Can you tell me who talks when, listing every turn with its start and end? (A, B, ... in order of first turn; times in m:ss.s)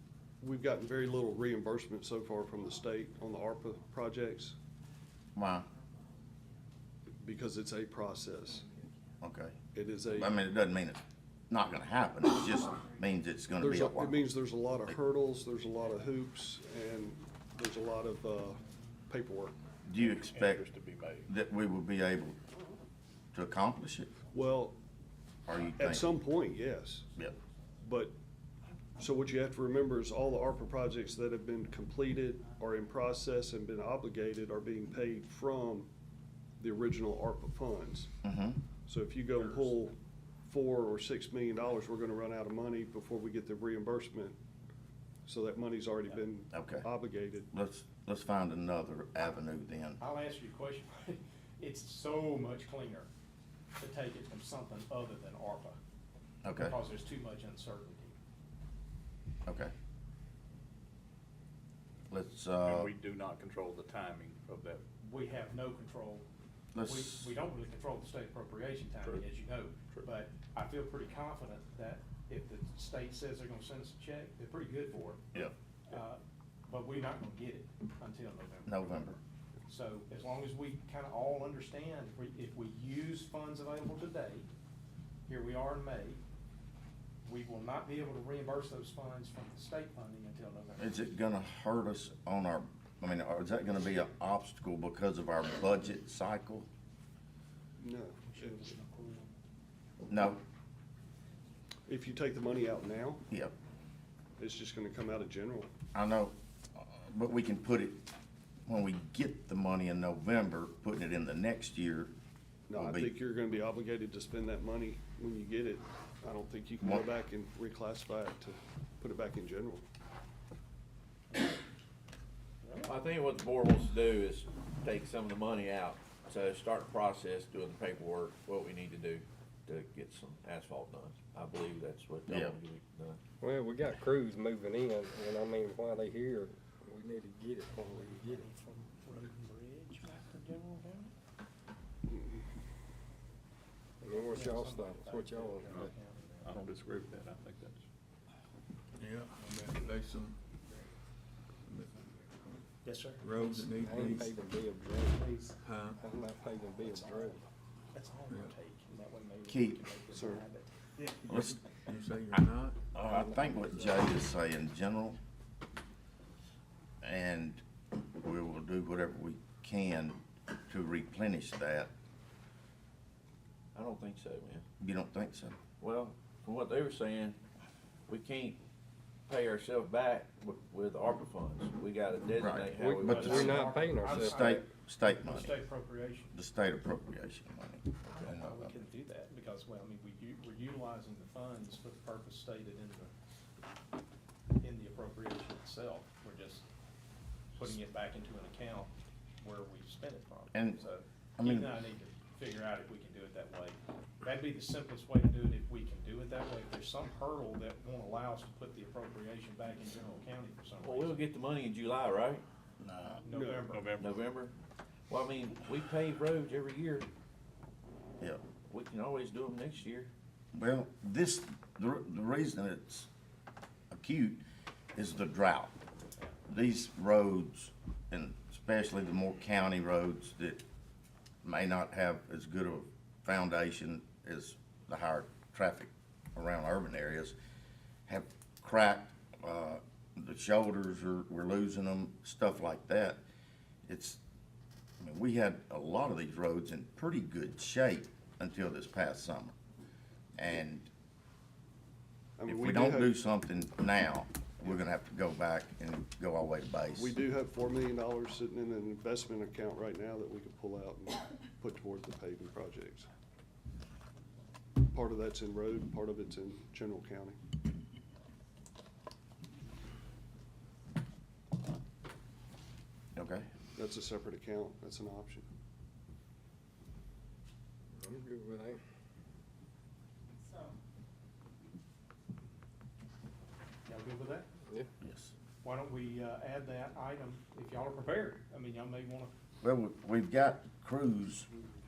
0:00.4-0:04.6 A
0:05.4-0:05.7 B
0:07.2-0:08.7 A
0:09.2-0:09.6 B
0:09.7-0:10.4 A
0:10.1-0:14.2 B
0:13.6-0:19.6 A
0:19.8-0:20.6 B
0:20.0-0:21.3 C
0:21.3-0:22.4 B
0:23.3-0:24.1 B
0:24.3-0:24.8 A
0:25.5-0:26.1 B
0:25.6-0:27.1 A
0:27.8-0:28.1 A
0:29.0-0:35.9 A
0:36.6-0:38.1 A
0:38.2-0:38.6 B
0:38.9-0:44.4 A
0:45.2-0:47.5 A
0:46.5-0:46.8 B
0:47.5-0:50.0 B
0:50.0-0:53.1 D
0:53.8-0:55.8 D
0:56.4-0:56.8 B
0:56.5-0:58.2 D
0:59.5-0:59.7 B
1:02.1-1:02.9 B
1:02.6-1:04.8 C
1:05.0-1:06.2 D
1:06.7-1:07.3 B
1:06.8-1:15.2 D
1:15.9-1:19.2 D
1:18.7-1:19.2 B
1:19.7-1:24.5 D
1:25.3-1:26.2 D
1:27.2-1:30.9 D
1:30.8-1:36.7 B
1:37.8-1:38.7 A
1:38.3-1:39.3 D
1:40.1-1:40.4 B
1:41.9-1:43.2 A
1:44.4-1:45.7 A
1:45.9-1:48.0 B
1:48.7-1:52.1 B
1:52.7-1:59.8 A
1:52.8-1:53.1 B
2:02.6-2:02.9 D
2:02.8-2:13.2 E
2:12.3-2:12.6 B
2:13.4-2:18.5 F
2:17.8-2:21.1 D
2:22.1-2:22.4 A
2:24.0-2:26.6 D
2:24.0-2:25.9 F
2:25.7-2:25.9 C
2:26.4-2:27.8 C
2:29.0-2:30.4 G
2:31.7-2:32.0 G
2:32.8-2:33.7 D
2:33.2-2:34.4 G
2:33.8-2:35.4 F
2:35.1-2:35.6 D
2:35.6-2:36.0 G
2:36.0-2:37.4 F
2:36.8-2:37.4 D
2:37.9-2:40.7 D
2:39.5-2:39.8 B
2:40.1-2:40.4 A
2:41.2-2:42.8 G
2:41.3-2:41.6 B
2:42.9-2:45.2 B
2:43.0-2:44.1 F
2:47.0-2:51.9 B
2:53.8-2:54.6 E
2:54.8-2:55.6 B
2:55.8-2:57.4 E
2:58.1-2:58.6 E
2:59.3-3:03.6 E
3:02.4-3:05.6 B
3:02.8-3:04.6 F
3:03.1-3:06.3 D
3:06.3-3:08.8 B
3:08.1-3:13.1 D
3:14.6-3:16.6 D
3:17.6-3:31.3 D
3:20.5-3:20.8 B
3:21.4-3:21.7 B
3:30.8-3:32.4 E
3:32.8-3:33.2 B
3:33.2-3:34.0 D
3:33.3-3:33.7 A
3:33.7-3:34.2 C
3:34.0-3:34.5 E
3:35.1-3:37.1 E
3:38.7-3:40.1 E
3:40.5-3:43.1 B
3:43.9-3:45.7 B
3:46.5-3:50.6 B
3:51.4-3:57.4 B
3:58.1-4:03.2 B
4:03.9-4:04.2 B
4:05.0-4:09.5 B
4:10.4-4:10.9 B
4:12.4-4:13.1 A
4:12.5-4:17.1 B
4:17.0-4:23.1 A
4:24.9-4:27.4 A
4:33.2-4:33.5 B
4:33.8-4:35.5 A
4:38.0-4:38.8 F
4:43.9-4:44.5 D
4:45.0-4:45.3 B
4:45.6-4:49.3 D
4:49.6-4:51.5 B